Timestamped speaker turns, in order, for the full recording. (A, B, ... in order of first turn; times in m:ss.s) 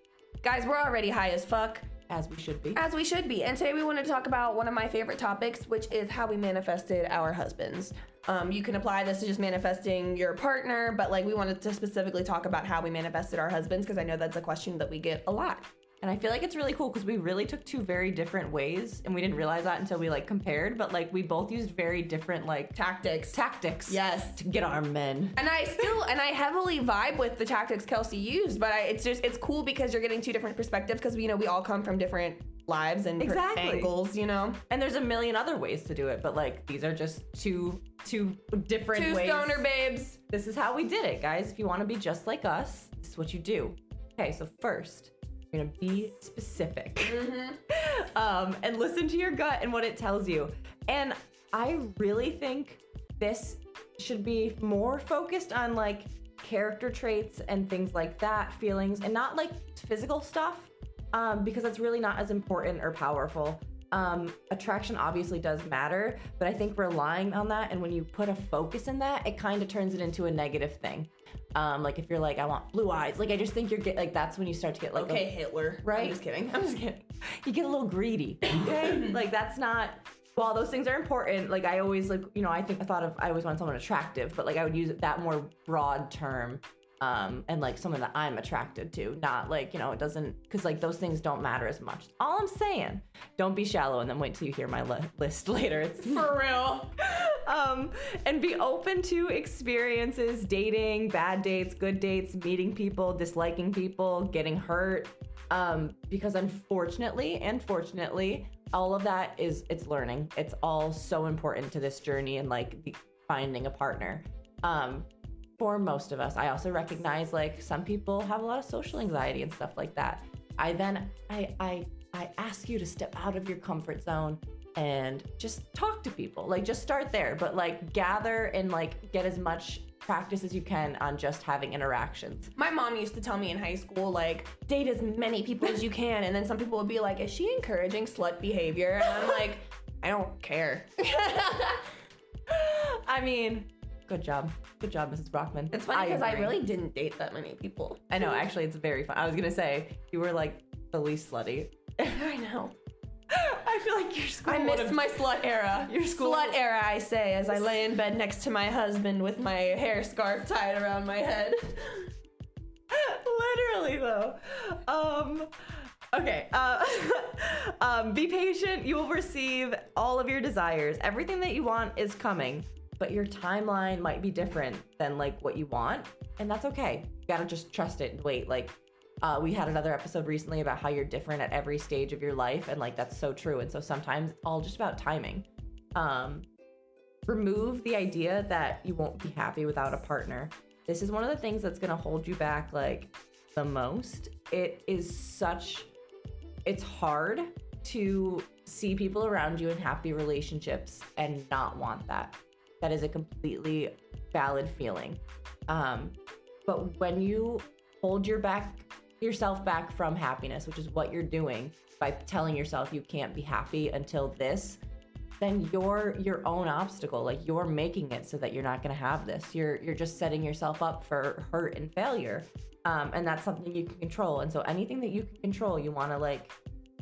0:00.4-0:01.9 A
0:02.1-0:02.8 B
0:02.7-0:15.7 A
0:16.0-0:22.8 B
0:22.7-0:24.4 A
0:23.3-0:25.4 B
0:25.4-0:34.6 A
0:33.2-0:33.9 B
0:34.7-0:39.6 B
0:38.9-0:40.2 A
0:40.3-1:36.3 B
0:47.0-0:47.6 A
1:15.0-1:16.7 A
1:36.0-1:36.9 A
1:37.0-2:12.5 B
2:12.6-2:21.9 A
2:22.5-2:26.6 B
2:25.7-2:28.4 A
2:28.1-2:32.0 B
2:32.0-2:32.7 A
2:33.3-2:36.6 B
2:34.4-2:42.1 A
2:42.9-3:06.4 B
3:07.3-3:15.9 B
3:16.6-3:34.8 B
3:35.4-3:46.6 B